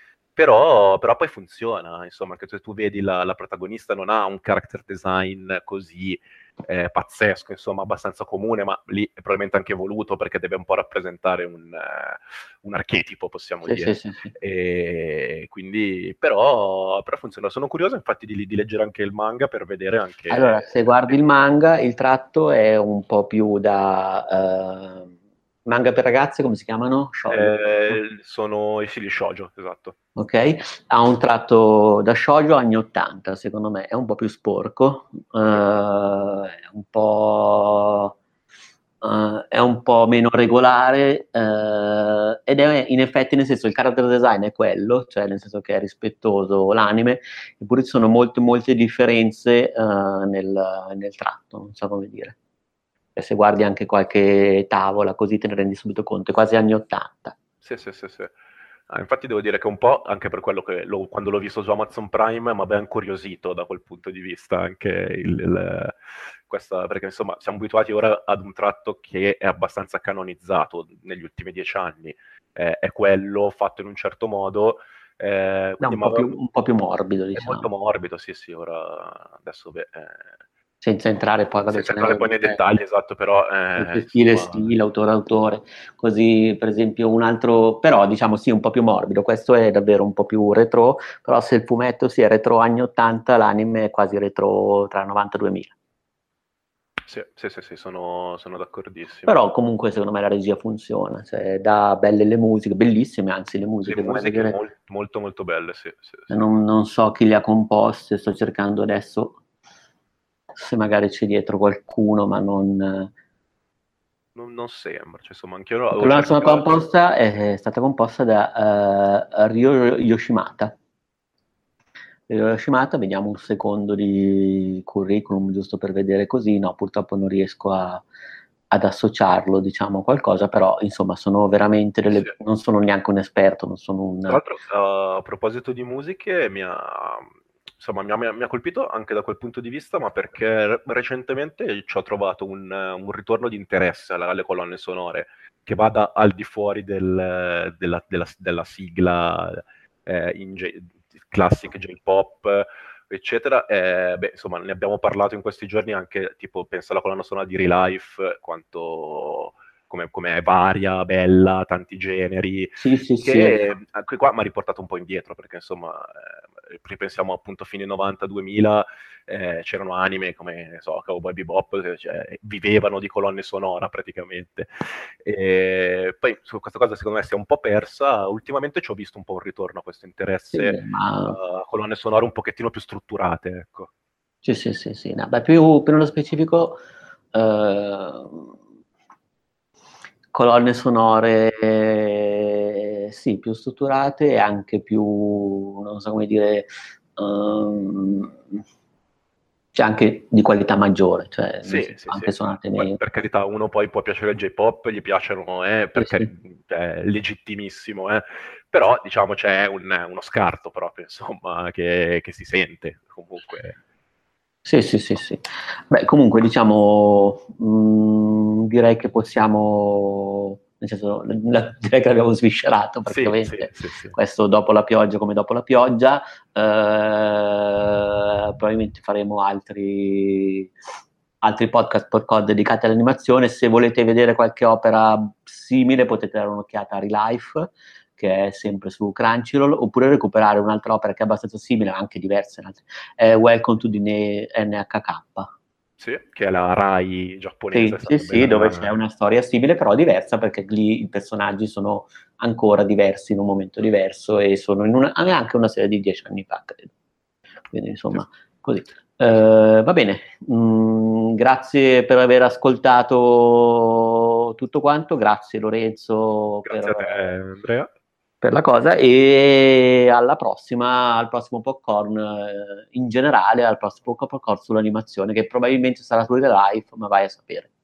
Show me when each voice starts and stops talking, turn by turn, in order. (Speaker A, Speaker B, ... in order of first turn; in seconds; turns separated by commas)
Speaker A: 0.3-21.1, Speaker B: 13.6-14.3, Speaker B: 20.3-25.1, Speaker B: 25.6-28.0, Speaker A: 27.3-29.9, Speaker B: 30.1-38.1, Speaker B: 39.0-52.4, Speaker B: 53.1-57.4, Speaker A: 57.6-58.3, Speaker A: 58.9-66.0, Speaker A: 66.5-76.3, Speaker B: 75.8-77.7, Speaker A: 77.3-80.3, Speaker B: 80.8-82.6, Speaker A: 81.7-84.8, Speaker B: 83.8-95.7, Speaker A: 97.0-99.3, Speaker B: 99.2-104.6, Speaker A: 103.8-106.3, Speaker B: 106.3-109.4, Speaker B: 110.5-113.1, Speaker A: 114.3-116.9, Speaker B: 116.0-120.8, Speaker B: 122.3-128.0, Speaker B: 128.7-134.4, Speaker A: 134.3-183.9, Speaker B: 162.8-163.6, Speaker B: 180.5-181.4, Speaker B: 184.4-186.8, Speaker B: 187.3-188.5, Speaker B: 190.3-198.6, Speaker B: 199.7-203.0, Speaker A: 201.6-213.8, Speaker B: 205.9-206.3, Speaker B: 214.7-230.7, Speaker A: 223.1-224.2, Speaker B: 231.4-245.5, Speaker A: 246.0-248.9, Speaker B: 247.7-256.9, Speaker B: 257.7-267.3, Speaker A: 266.6-267.9, Speaker B: 268.4-277.7